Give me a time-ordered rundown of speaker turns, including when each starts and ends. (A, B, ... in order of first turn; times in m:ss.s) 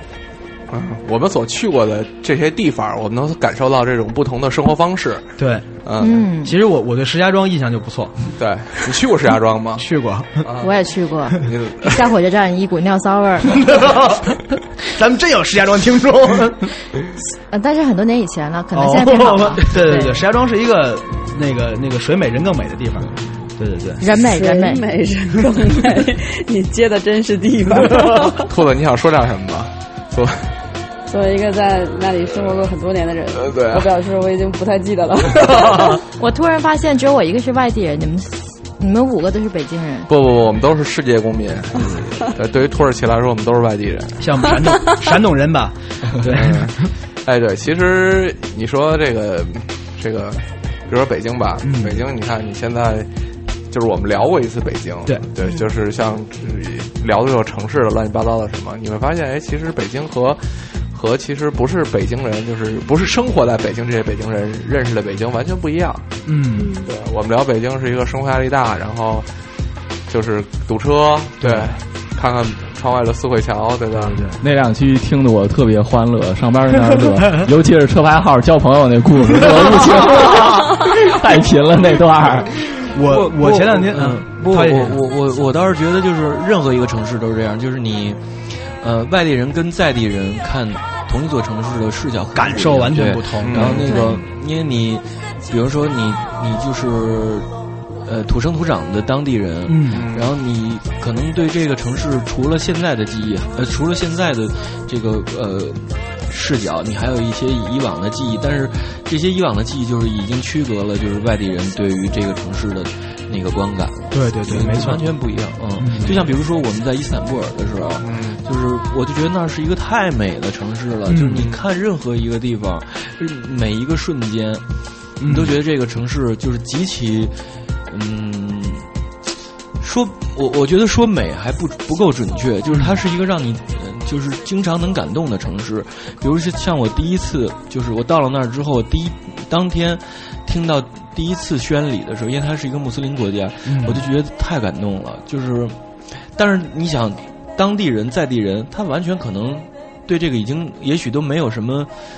0:00.7-0:06.2 A
0:05.4-0:05.8 B
0:06.0-0:06.5 C
0:06.4-0:08.3 B
0:08.3-0:09.8 A
0:09.8-0:10.4 B
0:10.4-0:10.8 A
0:10.6-0:13.8 C
0:11.4-0:12.0 A
0:13.6-0:14.3 B
0:14.9-0:16.7 B
0:17.5-0:20.2 C
0:18.7-0:24.0 B
0:24.0-0:24.8 C
0:24.3-0:28.4 D
0:28.1-0:28.4 B
0:28.5-0:30.5 A
0:31.1-0:35.9 D
0:33.3-0:33.9 A
0:35.6-0:36.0 B
0:36.2-0:40.1 C
0:40.1-0:44.5 A
0:41.7-0:42.2 B
0:44.2-0:46.9 B
0:46.3-0:53.1 A
0:51.6-0:52.0 B
0:53.7-1:06.2 A
0:55.0-0:55.6 B
1:06.2-1:06.8 B
1:06.8-1:09.3 A
1:10.1-1:14.2 A
1:11.4-1:11.7 B
1:13.9-1:14.4 B
1:14.4-1:22.5 E
1:19.4-1:20.8 B
1:22.8-1:25.0 B
1:23.0-1:37.5 F
1:32.4-1:33.8 B
1:33.4-1:33.9 A
1:33.8-1:34.2 C
1:38.0-2:04.6 F
1:39.6-1:40.0 B
1:39.9-1:40.3 A
1:54.1-1:55.1 B
1:55.8-1:56.2 B
1:58.0-1:58.4 A
2:01.1-2:01.5 B
2:05.2-2:05.6 B
2:05.2-2:07.3 F
2:07.9-2:08.9 F
2:09.8-2:31.9 F
2:12.7-2:13.0 B
2:23.6-2:24.0 B